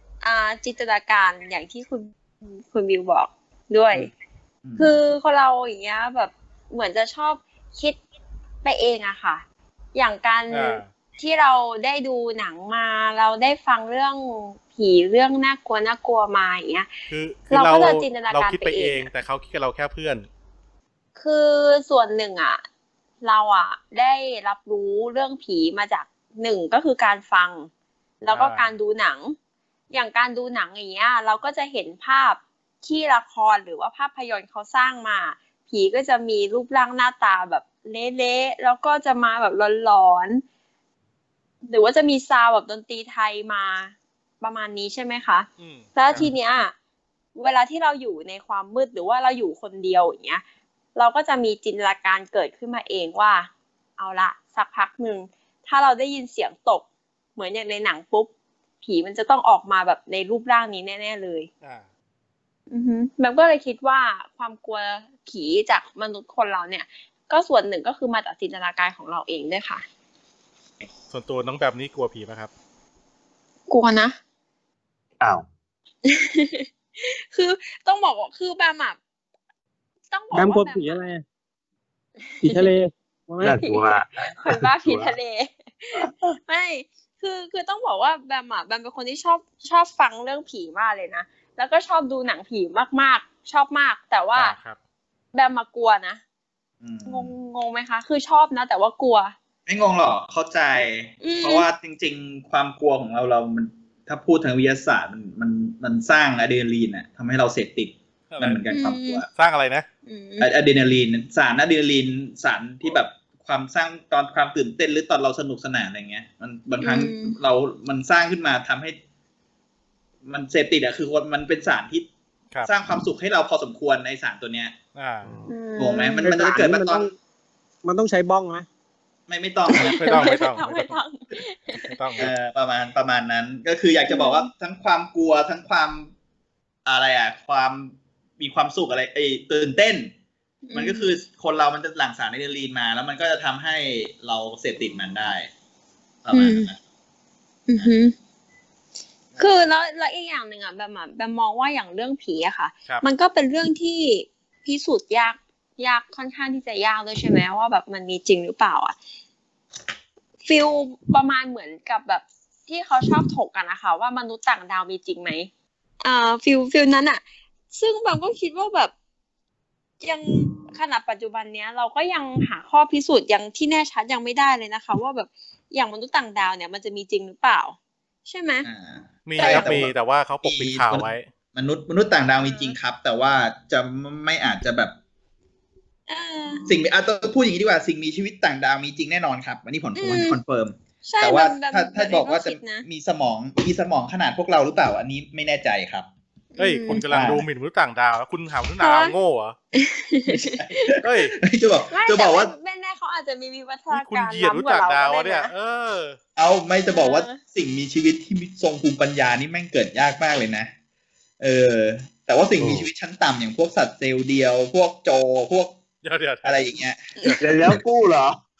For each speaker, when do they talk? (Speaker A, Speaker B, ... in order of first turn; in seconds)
Speaker A: 0.2-4.1, 4.8-8.0, 8.6-16.9, 17.5-19.1, 21.2-22.6, 23.2-27.7, 28.2-29.4, 29.9-40.4, 41.7-46.8, 47.4-50.4, 51.0-56.9, 57.4-58.3, 58.8-61.5, 62.7-69.8, 73.7-74.2, 76.0-79.0, 80.1-81.0, 82.4-82.7, 83.5-94.6, 95.3-96.2, 97.1-99.3, 101.2-101.7, 108.7-109.2, 110.1-110.5, 116.8-117.4, 125.5-126.4, 129.7-131.9, 134.1-134.5, 140.7-141.1, 146.3-146.7, 147.7-148.2, 149.4-159.0, 160.4-165.5, 166.0-168.9, 170.0-178.7, 179.4-179.9, 182.4-182.8, 186.1-186.7, 190.0-190.4, 191.1-192.8, 196.6-197.1, 198.8-199.1, 199.7-201.0, 201.9-205.5, 206.8-207.4
Speaker B: 4.6-4.9, 96.8-97.3, 99.7-109.3, 110.4-119.0, 120.2-122.1, 122.6-124.8, 125.8-127.1, 129.3-130.2, 132.2-136.1, 136.8-140.1, 140.7-145.5, 146.2-146.8, 178.7-184.9, 186.7-196.1, 197.1-197.5, 200.4-202.5, 206.4-210.7, 211.4-215.8, 216.4-217.1
Speaker C: 10.5-10.9, 17.1-20.3, 28.3-28.8, 45.6-45.9, 71.1-72.5, 94.3-94.8, 108.3-108.7, 109.3-109.9, 125.0-125.3, 129.7-131.0, 131.8-132.3, 179.3-181.3, 196.6-199.6, 201.0-201.4, 203.9-206.2, 216.0-216.7
Speaker D: 75.2-75.5, 83.4-85.2, 125.2-125.5, 212.6-212.9, 217.4-218.4
Speaker E: 80.3-81.2, 82.4-83.6, 126.2-127.1, 127.8-128.7